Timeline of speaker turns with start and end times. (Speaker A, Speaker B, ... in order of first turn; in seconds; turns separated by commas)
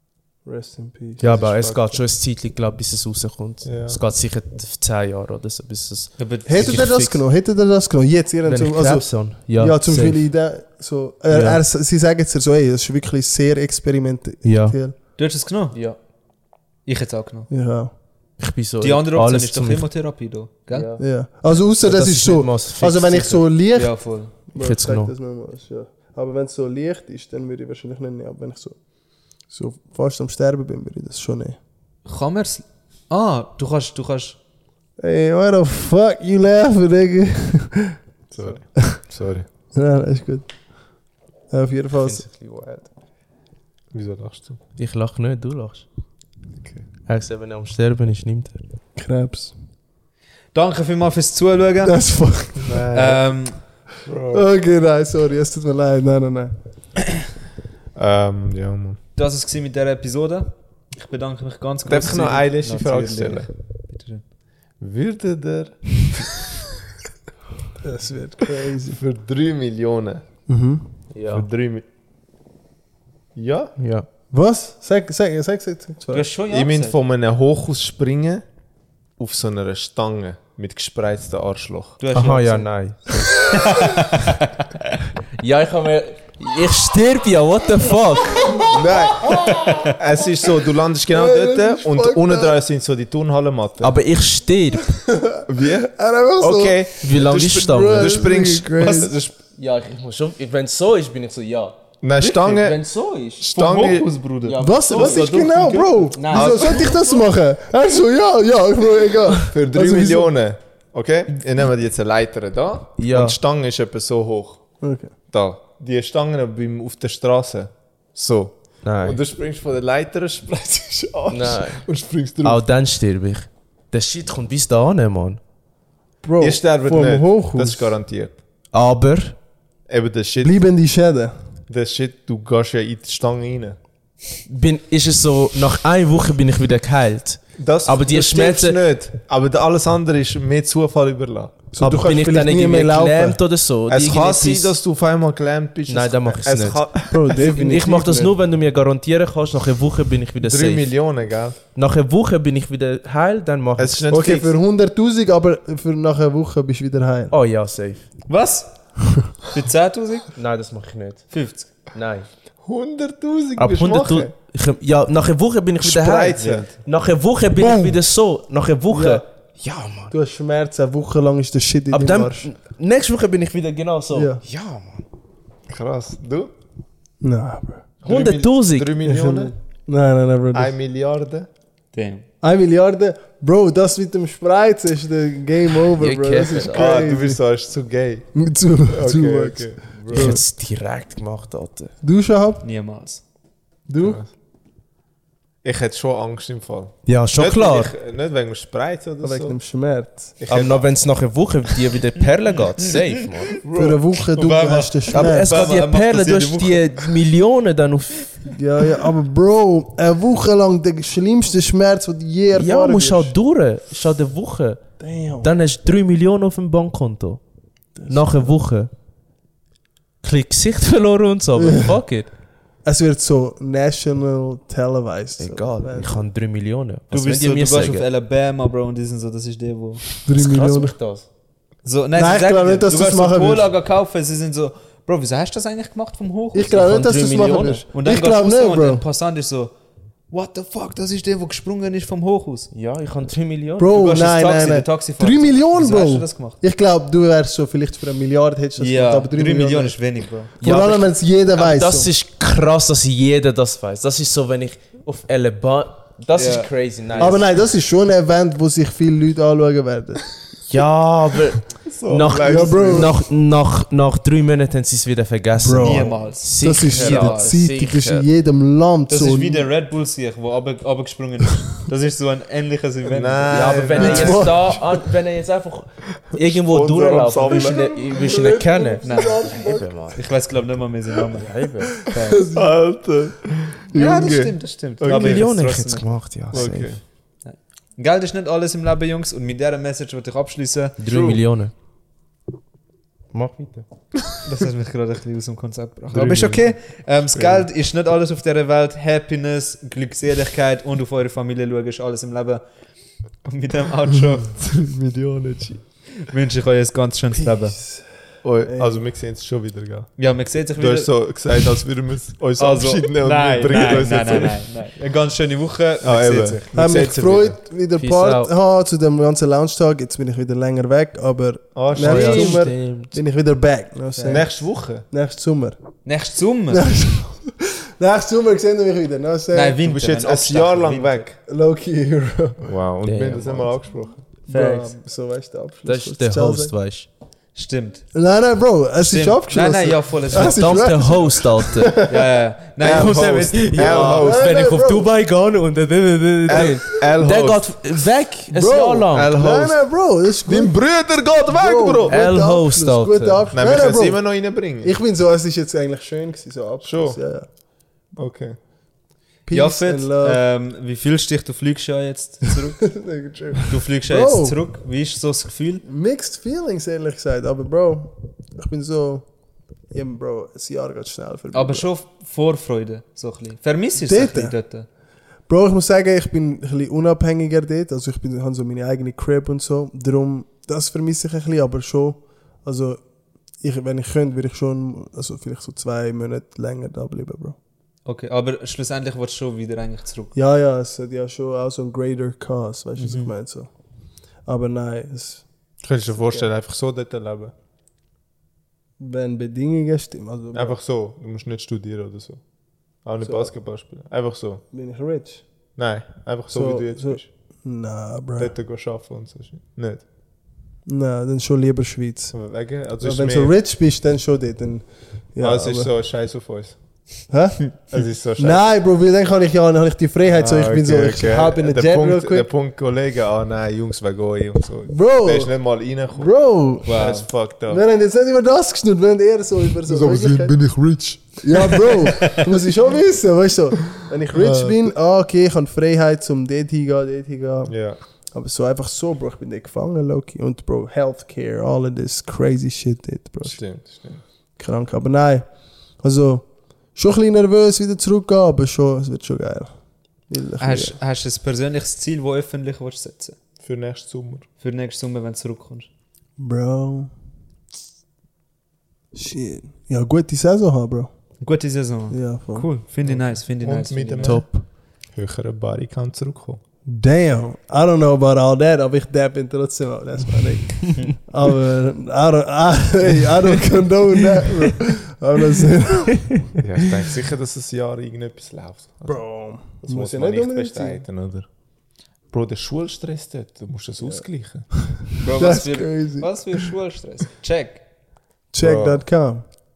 Speaker A: 0.5-2.0, Speaker B: 1.2-7.2, Speaker C: 3.6-4.0, Speaker D: 6.2-6.9, Speaker A: 6.5-15.0, Speaker B: 8.4-10.3, Speaker B: 11.3-11.6, Speaker B: 14.4-14.8, Speaker D: 15.2-15.8, Speaker B: 15.7-16.0, Speaker D: 16.9-17.5, Speaker A: 17.5-17.9, Speaker B: 18.4-19.9, Speaker D: 18.8-20.9, Speaker B: 20.7-21.1, Speaker A: 21.0-28.8, Speaker B: 21.8-23.5, Speaker D: 23.8-24.3, Speaker B: 24.6-25.1, Speaker A: 29.5-31.6, Speaker D: 32.1-34.4, Speaker A: 35.0-39.0, Speaker C: 38.3-39.5, Speaker A: 39.7-40.5, Speaker A: 41.5-42.6, Speaker B: 42.0-42.9, Speaker C: 43.9-44.6, Speaker B: 44.8-45.9, Speaker C: 46.6-46.9, Speaker B: 47.1-48.6, Speaker A: 49.0-49.5, Speaker D: 50.5-52.0, Speaker A: 51.8-52.8, Speaker C: 52.6-53.2, Speaker D: 52.9-53.6, Speaker C: 54.0-54.5, Speaker A: 54.3-56.5, Speaker C: 58.0-59.0, Speaker D: 59.2-64.2, Speaker C: 61.9-63.5, Speaker C: 64.8-66.4, Speaker A: 67.8-69.0, Speaker C: 68.9-70.2, Speaker A: 70.5-70.8, Speaker B: 71.1-71.5, Speaker C: 71.3-71.8, Speaker C: 73.3-73.7, Speaker B: 73.8-74.1, Speaker A: 74.3-76.3, Speaker D: 76.1-77.0, Speaker C: 76.5-78.4, Speaker C: 79.2-82.0, Speaker D: 82.0-82.7, Speaker B: 82.1-83.5, Speaker D: 83.5-85.0, Speaker B: 85.4-88.6, Speaker A: 88.5-89.8, Speaker C: 88.7-94.0, Speaker D: 89.5-89.9, Speaker A: 91.1-92.6, Speaker B: 93.8-94.9, Speaker A: 95.1-96.9, Speaker C: 95.5-99.3, Speaker B: 97.0-98.3, Speaker A: 97.6-99.2, Speaker B: 99.3-103.5, Speaker C: 102.0-102.8, Speaker C: 103.4-104.1, Speaker D: 103.5-104.6, Speaker B: 104.5-107.3, Speaker A: 104.6-110.3, Speaker C: 106.3-106.9, Speaker C: 109.5-114.7, Speaker B: 113.0-113.4, Speaker A: 114.8-115.1, Speaker C: 115.3-122.6, Speaker B: 118.8-119.2, Speaker B: 121.3-121.9, Speaker B: 122.4-125.4, Speaker A: 126.2-127.9, Speaker C: 126.4-128.4, Speaker B: 128.7-129.4, Speaker C: 129.9-130.5, Speaker A: 130.4-131.3, Speaker C: 131.7-133.8, Speaker B: 134.5-138.8, Speaker C: 137.6-141.7, Speaker A: 141.7-143.4, Speaker B: 141.8-144.8, Speaker C: 143.9-147.2, Speaker B: 145.9-146.9, Speaker A: 147.1-148.3, Speaker B: 147.4-150.9, Speaker C: 150.4-151.6, Speaker B: 151.8-154.1, Speaker C: 153.8-154.5, Speaker A: 154.1-157.3, Speaker B: 157.3-158.1, Speaker D: 158.3-158.7, Speaker D: 159.4-160.3, Speaker B: 160.4-161.3, Speaker D: 161.3-161.7, Speaker B: 161.9-162.3, Speaker C: 162.6-164.3, Speaker B: 163.6-170.1, Speaker C: 165.8-166.7, Speaker D: 166.4-166.8, Speaker A: 168.9-169.2, Speaker A: 170.1-172.5, Speaker B: 171.9-175.0, Speaker A: 174.1-174.4, Speaker C: 175.7-176.5, Speaker A: 177.2-177.8, Speaker C: 178.0-179.5, Speaker B: 178.1-179.1, Speaker A: 179.0-180.8, Speaker C: 180.5-181.5, Speaker D: 181.9-182.3, Speaker A: 182.4-187.4, Speaker B: 186.0-186.9, Speaker C: 186.7-188.3, Speaker A: 188.3-190.4, Speaker C: 188.9-190.4, Speaker B: 190.1-191.9, Speaker A: 192.0-192.6, Speaker D: 192.6-193.2, Speaker A: 193.9-194.2, Speaker C: 194.0-194.3, Speaker C: 195.6-199.6, Speaker B: 197.1-197.9, Speaker A: 199.2-200.4, Speaker C: 200.4-200.9, Speaker B: 200.5-203.6, Speaker D: 202.5-203.5, Speaker C: 203.6-204.6, Speaker A: 203.7-205.6, Speaker D: 204.3-207.1, Speaker B: 205.1-208.5, Speaker A: 208.5-213.3, Speaker B: 212.5-214.8, Speaker A: 215.0-215.5, Speaker B: 215.4-217.4, Speaker A: 217.9-218.6, Speaker B: 218.1-218.9, Speaker B: 220.2-222.3, Speaker A: 221.6-221.9, Speaker A: 222.8-226.2, Speaker B: 225.4-228.1, Speaker D: 227.1-230.0, Speaker A: 230.2-231.0, Speaker B: 230.3-231.3, Speaker D: 231.8-236.8, Speaker A: 232.2-233.7, Speaker A: 236.5-239.0, Speaker B: 236.7-237.9, Speaker D: 237.9-239.7, Speaker D: 240.3-242.7, Speaker B: 242.7-244.1, Speaker A: 243.8-250.0, Speaker D: 243.9-246.6, Speaker D: 248.8-250.5, Speaker A: 250.6-252.1, Speaker B: 250.6-257.4, Speaker D: 256.4-256.7, Speaker A: 257.2-260.3, Speaker B: 260.7-268.3, Speaker C: 261.9-263.1, Speaker A: 262.4-263.2, Speaker A: 265.6-269.7, Speaker D: 265.8-267.6, Speaker D: 269.1-274.4, Speaker C: 273.1-274.7, Speaker B: 273.5-280.3, Speaker A: 274.0-274.9, Speaker C: 276.3-277.9, Speaker A: 277.4-280.0, Speaker D: 279.0-281.5, Speaker B: 281.4-282.0, Speaker D: 282.0-282.4, Speaker A: 282.1-282.7, Speaker C: 282.5-285.5, Speaker D: 283.9-286.1, Speaker A: 284.0-284.3, Speaker B: 285.0-287.0, Speaker C: 286.5-287.0, Speaker D: 287.4-291.0, Speaker B: 291.0-291.7, Speaker C: 291.1-291.4, Speaker B: 293.3-293.9, Speaker D: 294.4-302.6, Speaker C: 296.1-296.6, Speaker C: 297.3-297.7, Speaker D: 303.4-304.5, Speaker C: 304.4-305.9, Speaker D: 306.3-307.8, Speaker A: 307.4-308.1, Speaker C: 308.4-310.2, Speaker A: 308.6-309.0, Speaker D: 310.2-311.1, Speaker C: 310.8-314.6, Speaker D: 312.6-316.8, Speaker C: 316.0-317.6, Speaker A: 316.7-325.8, Speaker B: 317.9-318.5, Speaker C: 321.8-322.7, Speaker B: 321.9-323.2, Speaker D: 324.1-324.4, Speaker C: 324.3-325.1, Speaker D: 326.1-326.9, Speaker A: 326.7-329.8, Speaker D: 329.5-331.3, Speaker C: 329.8-331.4, Speaker A: 331.5-332.7, Speaker C: 332.6-334.2, Speaker B: 333.0-333.7, Speaker D: 334.5-335.0, Speaker A: 334.5-336.8, Speaker B: 335.9-337.1, Speaker D: 337.6-338.1, Speaker A: 338.1-342.1, Speaker D: 339.0-340.9, Speaker B: 340.4-342.0, Speaker D: 342.0-344.2, Speaker C: 342.8-344.5, Speaker B: 342.8-349.4, Speaker A: 343.9-345.1, Speaker C: 346.5-347.8, Speaker A: 346.5-346.8, Speaker A: 348.5-350.9, Speaker C: 349.1-349.9, Speaker C: 350.4-352.2, Speaker A: 351.5-357.5, Speaker B: 352.1-353.5, Speaker C: 353.5-354.9, Speaker C: 356.8-357.2, Speaker C: 358.2-358.6, Speaker A: 359.5-360.4, Speaker D: 359.5-362.9, Speaker A: 362.9-364.6, Speaker D: 363.6-365.8, Speaker A: 365.9-369.3, Speaker A: 369.9-371.9, Speaker D: 371.5-374.9, Speaker A: 374.0-374.6, Speaker A: 375.5-383.0, Speaker A: 383.6-387.6, Speaker D: 388.1-390.4, Speaker A: 390.4-393.7, Speaker D: 393.0-393.3, Speaker A: 394.5-395.5, Speaker C: 395.8-397.5, Speaker A: 396.1-396.5, Speaker A: 399.0-400.8, Speaker C: 400.5-402.4, Speaker C: 403.0-404.6, Speaker A: 403.2-403.5, Speaker A: 404.7-405.4, Speaker C: 405.8-407.3, Speaker A: 406.5-408.5, Speaker C: 408.4-410.0, Speaker A: 410.9-412.4, Speaker C: 412.3-413.5, Speaker A: 413.0-415.9, Speaker C: 415.4-416.8, Speaker A: 417.3-422.5, Speaker C: 417.9-418.6, Speaker C: 420.3-426.3, Speaker A: 424.9-425.6, Speaker A: 426.1-427.0, Speaker D: 426.9-427.3, Speaker C: 426.9-427.8, Speaker A: 427.7-430.6, Speaker C: 429.9-432.0, Speaker A: 431.4-437.8, Speaker D: 432.2-432.4, Speaker C: 434.4-434.8, Speaker C: 437.7-438.0, Speaker A: 438.3-443.6, Speaker C: 443.4-444.2, Speaker A: 444.6-445.5, Speaker A: 446.0-449.8, Speaker A: 450.3-451.0, Speaker D: 450.6-453.4, Speaker C: 453.6-454.5, Speaker D: 454.6-455.9, Speaker A: 456.4-457.1, Speaker A: 459.1-461.1, Speaker D: 461.4-464.4, Speaker A: 462.1-462.7, Speaker C: 463.1-464.6, Speaker B: 464.2-464.6, Speaker C: 465.1-466.6, Speaker A: 466.9-476.4, Speaker C: 476.6-481.5, Speaker A: 479.1-481.0, Speaker C: 482.3-484.7, Speaker A: 484.0-486.7, Speaker D: 485.2-487.8, Speaker A: 488.5-489.5, Speaker C: 488.6-489.0